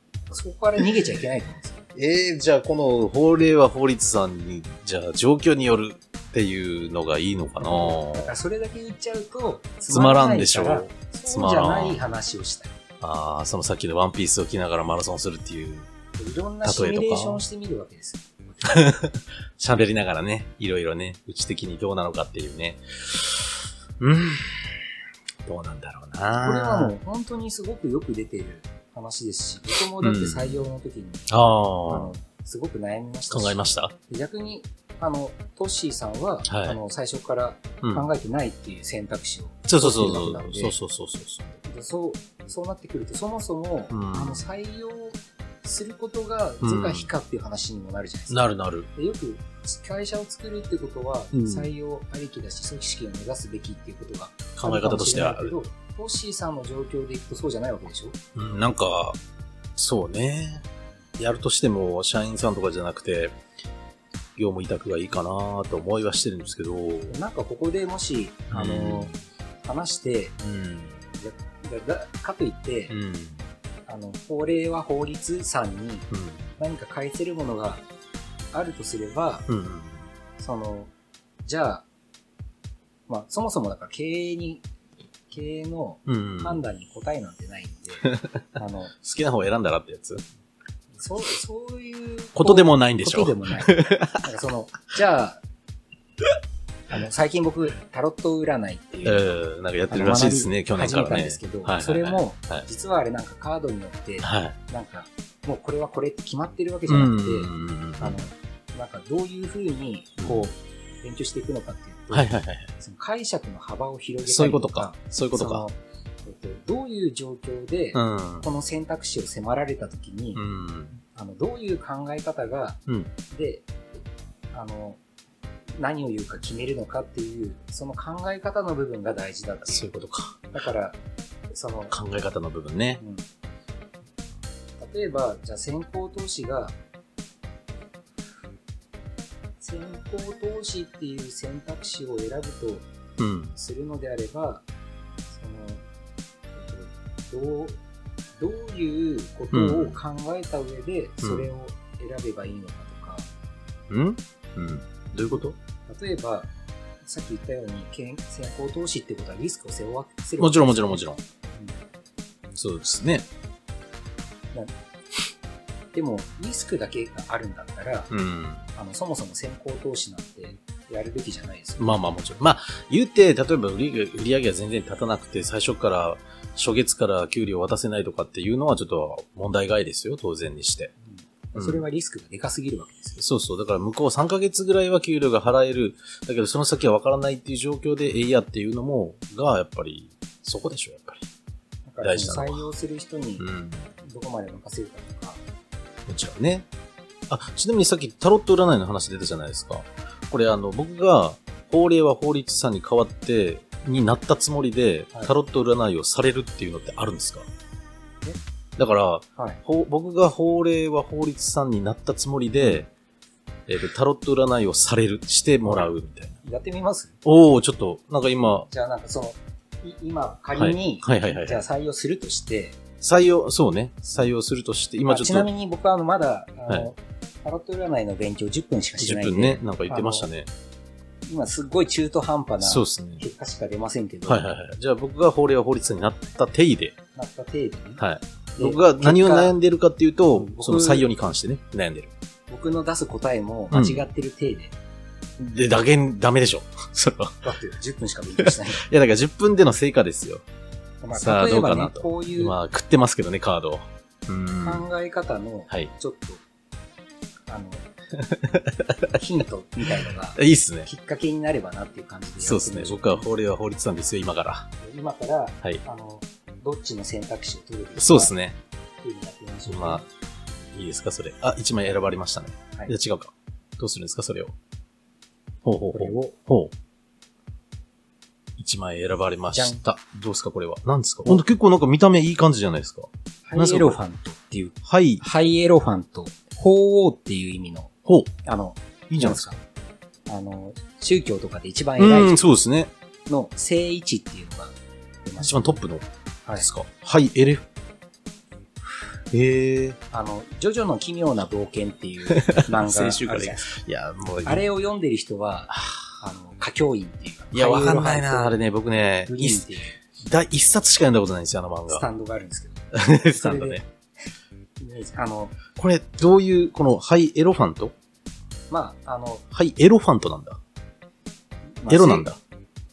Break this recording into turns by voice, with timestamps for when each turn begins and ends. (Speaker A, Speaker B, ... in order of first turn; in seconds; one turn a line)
Speaker A: 0.3-1.9
Speaker B: 1.9-8.3
Speaker A: 7.6-12.7
Speaker B: 9.9-12.1
Speaker B: 13.0-15.9
Speaker A: 16.1-18.9
Speaker B: 16.6-17.4
Speaker B: 18.6-26.9
Speaker A: 26.4-31.3
Speaker B: 30.0-30.6
Speaker B: 31.3-32.1
Speaker A: 31.9-40.7
Speaker B: 33.3-33.9
Speaker B: 36.5-36.8
Speaker B: 39.7-41.6
Speaker A: 41.6-58.2
Speaker B: 43.9-44.5
Speaker B: 46.6-47.1
Speaker B: 48.3-48.9
Speaker B: 51.3-51.7
Speaker B: 54.5-55.5
Speaker B: 58.3-59.2
Speaker B: 59.8-60.6
Speaker B: 61.2-63.4
Speaker B: 64.3-67.2
Speaker A: 67.1-70.3
Speaker B: 68.5-69.2
Speaker B: 70.4-71.0
Speaker A: 71.1-72.9
Speaker B: 72.9-73.4
Speaker A: 73.9-77.8
Speaker B: 76.1-76.5
Speaker A: 78.5-79.5
Speaker B: 79.5-80.1
Speaker A: 80.4-80.9
Speaker A: 81.5-81.8
Speaker A: 83.1-84.6
Speaker A: 85.3-88.9
Speaker B: 86.0-86.6
Speaker B: 88.0-88.4
Speaker B: 89.0-90.2
Speaker A: 91.0-95.4
Speaker B: 92.3-94.2
Speaker A: 96.9-99.3
Speaker B: 99.0-102.7
Speaker A: 99.9-120.4
Speaker B: 104.2-104.6
Speaker B: 106.9-108.2
Speaker B: 110.2-110.5
Speaker B: 112.1-112.7
Speaker B: 114.2-115.7
Speaker B: 117.9-118.5
Speaker B: 120.3-120.9
Speaker A: 121.0-123.7
Speaker A: 124.5-125.0
Speaker A: 125.8-129.9
Speaker B: 129.7-130.4
Speaker A: 130.5-131.0
Speaker A: 131.5-131.9
Speaker B: 131.9-133.0
Speaker A: 133.0-133.2
Speaker A: 134.8-136.7
Speaker A: 139.6-142.8
Speaker B: 143.2-143.5
Speaker A: 143.5-144.6
Speaker A: 145.3-145.8
Speaker A: 146.5-147.8
Speaker A: 148.4-153.3
Speaker B: 149.5-150.0
Speaker B: 151.2-151.5
Speaker B: 153.9-155.6
Speaker A: 155.9-156.5
Speaker A: 157.0-161.8
Speaker B: 160.4-161.2
Speaker B: 162.5-163.2
Speaker A: 165.9-168.1
Speaker B: 168.1-168.6
Speaker A: 168.7-172.0
Speaker B: 171.8-180.9
Speaker A: 181.0-183.2
Speaker B: 181.6-181.8
Speaker B: 183.2-191.3
Speaker A: 191.9-193.5
Speaker B: 192.0-192.6
Speaker B: 193.4-193.9
Speaker A: 194.0-195.4
Speaker B: 196.1-196.7
Speaker B: 197.3-207.5
Speaker B: 208.8-212.9
Speaker A: 212.6-212.8
Speaker B: 213.7-216.4
Speaker A: 216.4-217.2
Speaker B: 217.2-218.7
Speaker A: 218.7-222.8
Speaker B: 220.5-221.6
Speaker B: 223.0-225.5
Speaker A: 225.1-230.3
Speaker B: 229.0-230.5
Speaker A: 231.2-234.5
Speaker B: 232.6-233.2
Speaker B: 234.2-236.9
Speaker A: 237.1-238.0
Speaker B: 238.0-242.1
Speaker A: 238.6-239.5
Speaker A: 240.3-241.1
Speaker A: 242.5-244.7
Speaker B: 243.7-244.0
Speaker B: 245.4-247.4
Speaker A: 247.4-248.8
Speaker B: 248.4-250.4
Speaker A: 251.0-252.5
Speaker B: 251.1-254.8
Speaker A: 254.6-256.4
Speaker A: 257.5-257.9
Speaker B: 258.2-259.2
Speaker A: 259.1-263.3
Speaker B: 260.4-260.9
Speaker B: 262.4-264.7
Speaker A: 264.8-268.3
Speaker B: 268.0-268.6
Speaker A: 269.0-270.1
Speaker B: 269.7-274.5
Speaker B: 275.6-276.7
Speaker A: 275.9-276.3
Speaker B: 278.6-284.0
Speaker A: 279.5-279.8
Speaker A: 283.4-287.9
Speaker B: 284.8-285.2
Speaker A: 288.4-289.6
Speaker B: 289.1-289.6
Speaker A: 290.3-292.4
Speaker B: 292.0-292.9
Speaker A: 293.3-295.8
Speaker B: 295.4-296.1
Speaker B: 296.6-297.6
Speaker B: 299.3-300.0
Speaker A: 300.1-303.7
Speaker B: 302.3-304.6
Speaker A: 304.4-308.6
Speaker B: 305.7-306.1
Speaker B: 307.5-309.6
Speaker A: 309.2-310.0
Speaker B: 310.2-312.0
Speaker A: 311.9-313.8
Speaker B: 312.9-313.8
Speaker A: 314.8-315.6
Speaker B: 315.7-317.9
Speaker A: 318.7-319.4
Speaker B: 319.5-320.6
Speaker A: 321.8-322.3
Speaker B: 321.9-322.4